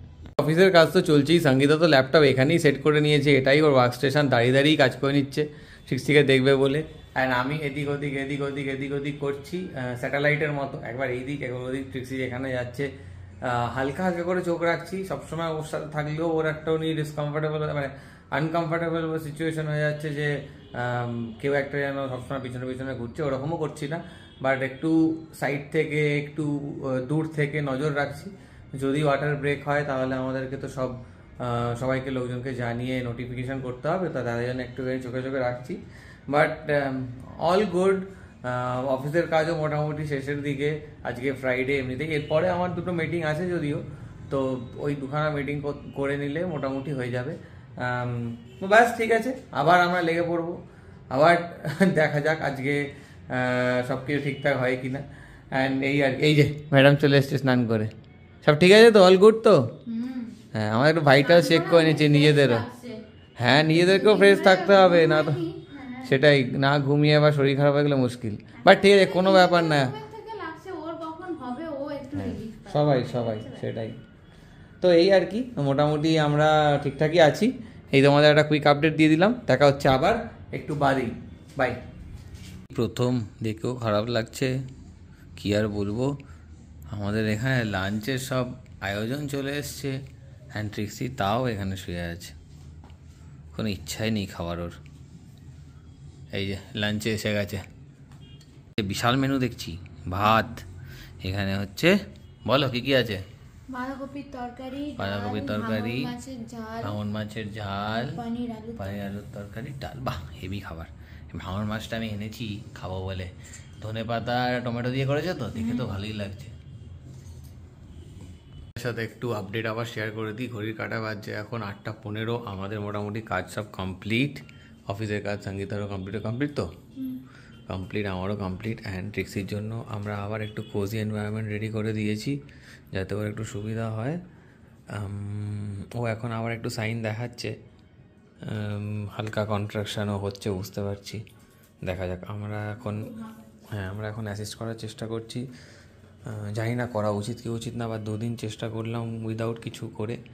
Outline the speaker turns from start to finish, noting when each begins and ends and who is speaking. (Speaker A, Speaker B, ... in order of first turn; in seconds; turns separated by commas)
Speaker A: 0.4-12.9, Speaker A: 13.4-57.9, Speaker A: 58.4-59.8, Speaker B: 59.9-60.4, Speaker A: 60.5-62.7, Speaker B: 61.2-63.0, Speaker A: 63.4-65.4, Speaker B: 63.6-66.1, Speaker A: 66.0-69.9, Speaker B: 68.6-73.7, Speaker A: 72.1-74.0, Speaker A: 74.8-81.8, Speaker A: 82.7-84.5, Speaker A: 85.3-86.2, Speaker A: 86.9-90.0, Speaker A: 90.5-92.3, Speaker A: 93.5-94.8, Speaker A: 96.3-97.6, Speaker A: 98.8-100.6, Speaker A: 101.2-103.2, Speaker B: 103.7-107.0, Speaker A: 105.0-106.1, Speaker A: 106.8-108.2, Speaker B: 107.9-109.0, Speaker A: 108.8-116.5, Speaker B: 115.6-115.9, Speaker A: 118.8-126.7, Speaker A: 127.7-132.4, Speaker A: 132.9-134.2, Speaker A: 134.9-137.6, Speaker A: 138.4-141.2, Speaker A: 141.8-143.1, Speaker A: 143.7-145.5, Speaker A: 146.3-150.2